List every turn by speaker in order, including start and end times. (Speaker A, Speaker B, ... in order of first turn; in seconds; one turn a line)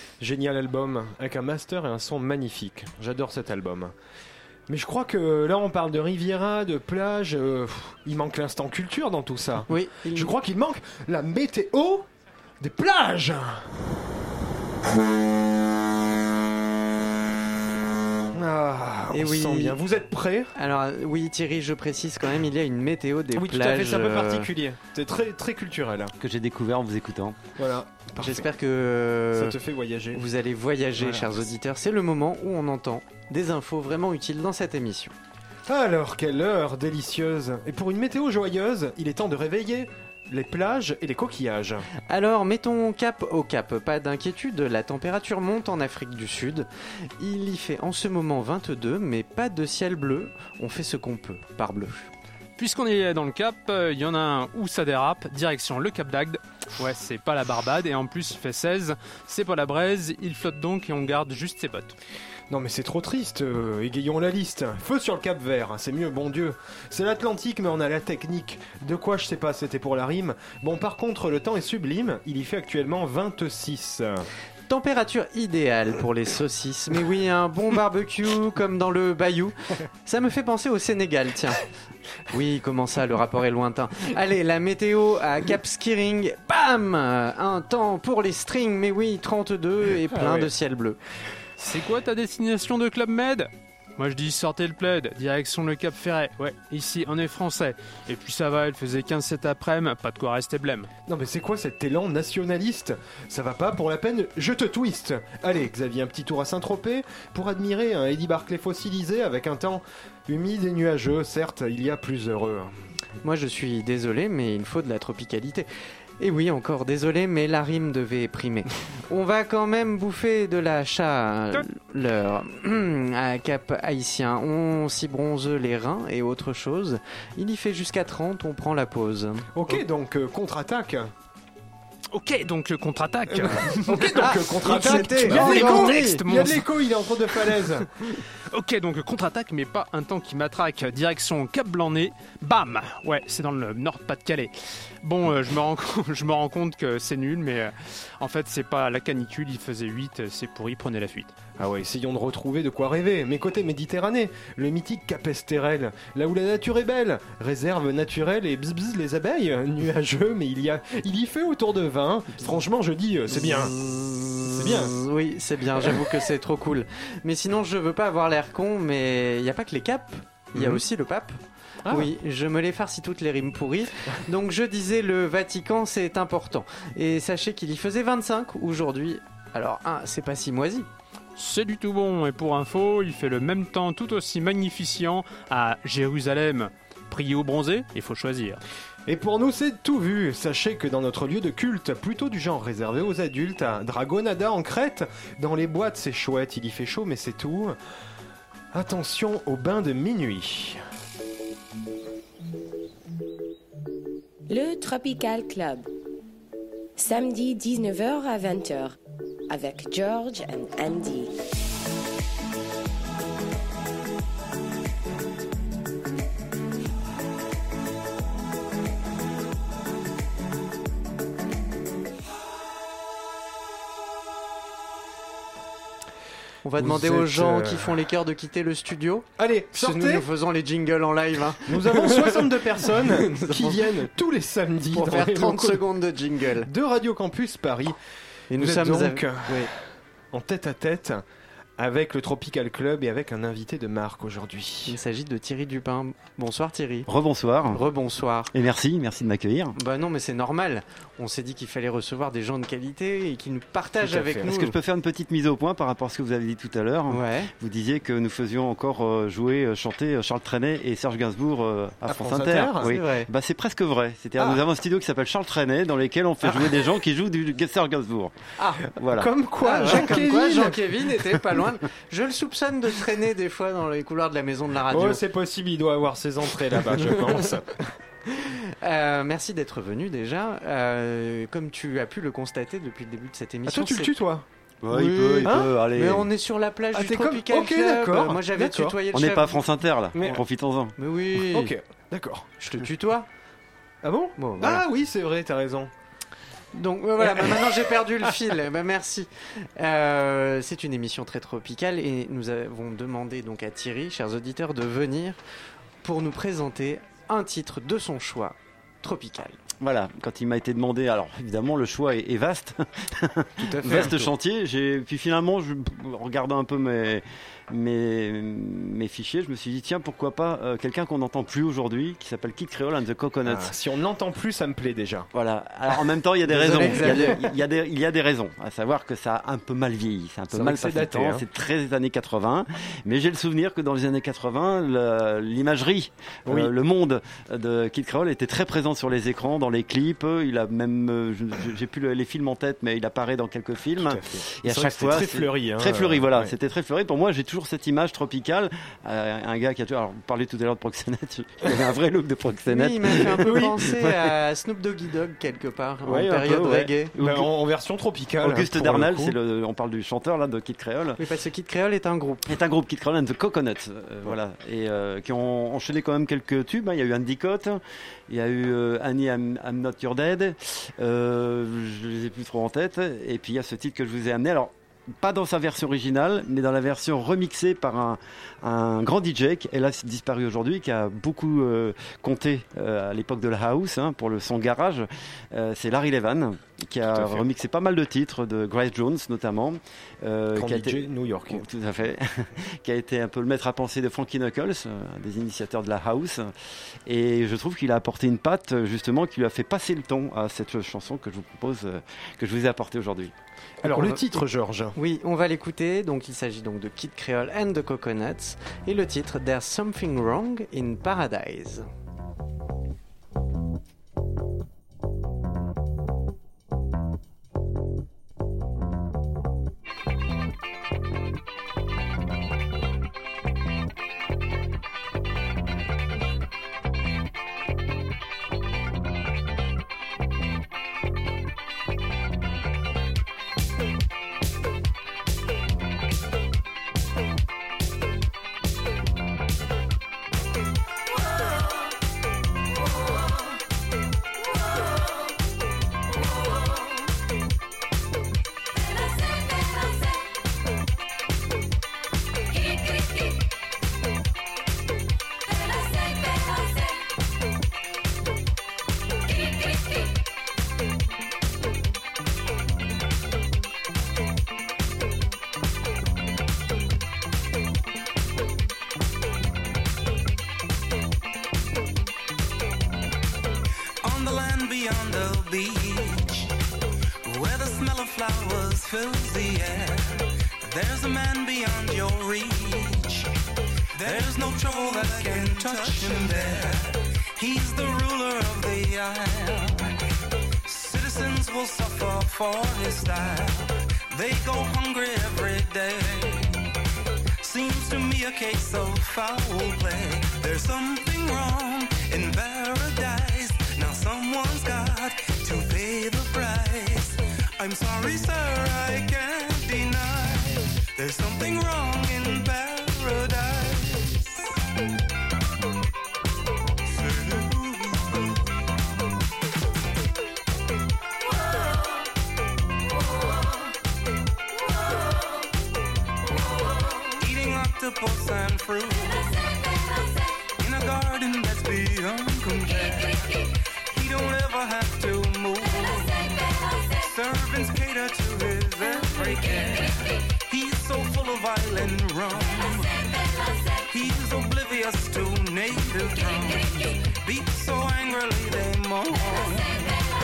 Speaker A: 0.2-3.9
Speaker A: 4.7-12.1
Speaker B: 9.7-10.3
Speaker A: 12.6-14.0
Speaker A: 18.3-20.5
Speaker B: 19.1-19.8
Speaker B: 20.6-24.5
Speaker A: 23.3-26.1
Speaker C: 26.2-27.4
Speaker A: 27.6-28.5
Speaker B: 28.2-29.6
Speaker A: 29.3-30.3
Speaker B: 30.1-35.1
Speaker A: 31.0-31.4
Speaker A: 35.7-41.9
Speaker B: 42.1-52.1
Speaker D: 52.6-62.0
Speaker A: 62.5-74.3
Speaker B: 74.7-81.6
Speaker B: 82.3-91.0
Speaker A: 90.0-90.5
Speaker D: 91.6-100.9
Speaker A: 101.1-112.9
Speaker B: 113.2-115.7
Speaker B: 116.2-129.5
Speaker A: 129.5-131.1
Speaker D: 132.1-136.7
Speaker A: 133.3-137.9
Speaker B: 134.2-136.0
Speaker D: 138.1-151.3
Speaker A: 151.6-163.8
Speaker B: 163.8-171.4
Speaker A: 164.5-165.0
Speaker A: 170.5-170.8
Speaker A: 171.9-172.1
Speaker B: 171.9-180.9
Speaker D: 181.4-188.6
Speaker A: 189.1-197.8
Speaker A: 198.7-200.8
Speaker E: 204.5-205.9
Speaker E: 207.0-209.0
Speaker E: 209.5-211.3
Speaker B: 226.6-233.9
Speaker A: 226.8-228.0
Speaker A: 229.4-230.3
Speaker A: 231.7-235.8
Speaker B: 234.9-236.7
Speaker A: 236.6-238.0
Speaker B: 238.5-239.7
Speaker A: 238.5-239.8
Speaker A: 240.3-241.2
Speaker A: 241.8-245.0
Speaker B: 244.9-247.1
Speaker C: 247.1-247.8
Speaker B: 247.7-248.5
Speaker C: 248.5-249.8
Speaker B: 249.8-254.8
Speaker A: 254.0-254.5
Speaker C: 254.4-268.3
Speaker B: 257.1-257.5
Speaker A: 262.0-262.9
Speaker B: 262.8-263.3
Speaker B: 268.6-268.9
Speaker C: 269.0-269.3
Speaker A: 269.1-270.8
Speaker B: 269.6-275.2
Speaker A: 274.9-277.9
Speaker B: 276.9-277.5
Speaker B: 278.3-284.1
Speaker A: 283.7-284.5
Speaker C: 284.8-286.3
Speaker B: 284.9-289.6
Speaker A: 285.4-285.7
Speaker A: 286.9-289.0
Speaker C: 289.1-290.9
Speaker A: 290.1-290.4
Speaker B: 291.0-291.7
Speaker A: 291.4-292.5
Speaker B: 292.6-293.3
Speaker A: 294.0-295.9
Speaker B: 294.4-294.8
Speaker B: 296.7-305.4
Speaker A: 297.2-298.3
Speaker B: 306.0-309.6
Speaker C: 309.8-323.8
Speaker A: 313.6-314.3
Speaker A: 323.4-325.3
Speaker C: 325.3-353.7
Speaker A: 325.9-327.5
Speaker B: 326.5-327.4
Speaker A: 330.5-331.4
Speaker A: 336.5-336.7
Speaker A: 344.0-346.6
Speaker B: 352.7-357.1
Speaker A: 353.4-353.9
Speaker C: 356.1-357.5
Speaker A: 357.2-359.4
Speaker C: 358.4-361.2
Speaker B: 361.2-362.6
Speaker C: 362.5-396.5
Speaker A: 387.0-387.5
Speaker A: 390.5-391.6
Speaker C: 397.1-403.3
Speaker A: 403.8-404.9
Speaker B: 403.8-404.4
Speaker B: 405.0-411.9
Speaker F: 474.0-476.5
Speaker F: 477.2-483.3
Speaker F: 483.9-489.9
Speaker F: 490.7-496.6
Speaker F: 497.4-514.5
Speaker F: 516.9-518.4
Speaker F: 527.1-529.7
Speaker F: 530.6-543.2
Speaker F: 543.8-550.0